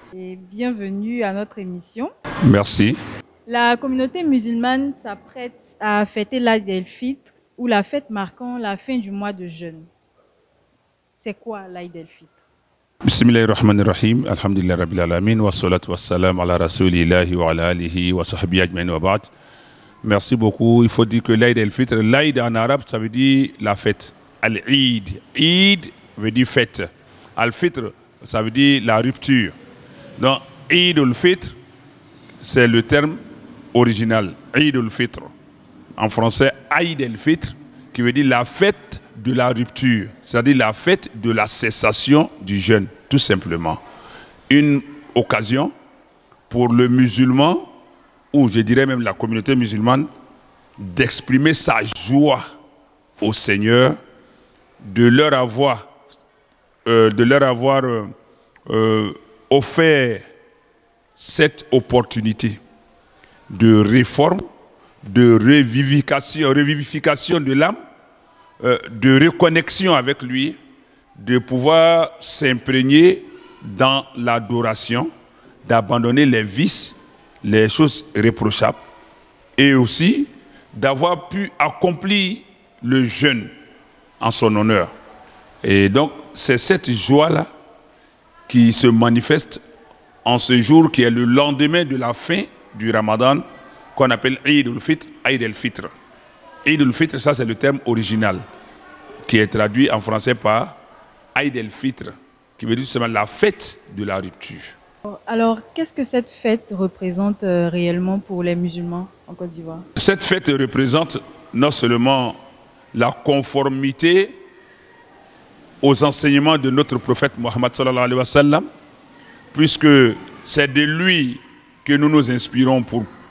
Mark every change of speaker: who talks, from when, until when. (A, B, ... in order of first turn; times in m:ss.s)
0:00.1-0:02.1 A
0:02.4-0:03.0 B
0:03.5-0:09.9 A
0:11.2-0:12.3 A
0:13.0-0:19.3 B
0:20.0-0:29.6 B
0:30.2-0:31.6 B
0:32.4-0:33.2 B
0:33.7-0:35.3 B
0:36.0-0:43.8 B
0:44.5-0:45.7 B
0:46.5-0:47.7 B
0:48.3-0:50.1 B
0:50.8-0:52.4 B
0:53.2-0:54.0 B
0:54.8-0:55.9 B
0:56.8-0:58.1 B
0:58.7-1:00.2 B
1:01.2-1:02.6 B
1:03.5-1:04.4 B
1:05.0-1:07.8 B
1:08.6-1:10.6 B
1:11.2-1:15.1 B
1:15.6-1:18.8 B
1:19.6-1:23.5 B
1:24.2-1:24.9 B
1:25.6-1:27.5 B
1:28.5-1:29.6 B
1:30.2-1:33.4 B
1:34.0-1:35.9 B
1:36.6-1:38.4 B
1:39.2-1:40.8 B
1:41.4-1:44.8 B
1:45.1-1:49.8 A
1:50.0-1:52.4 B
1:52.9-1:54.4 B
1:55.8-1:58.7 B
1:59.5-2:03.1 B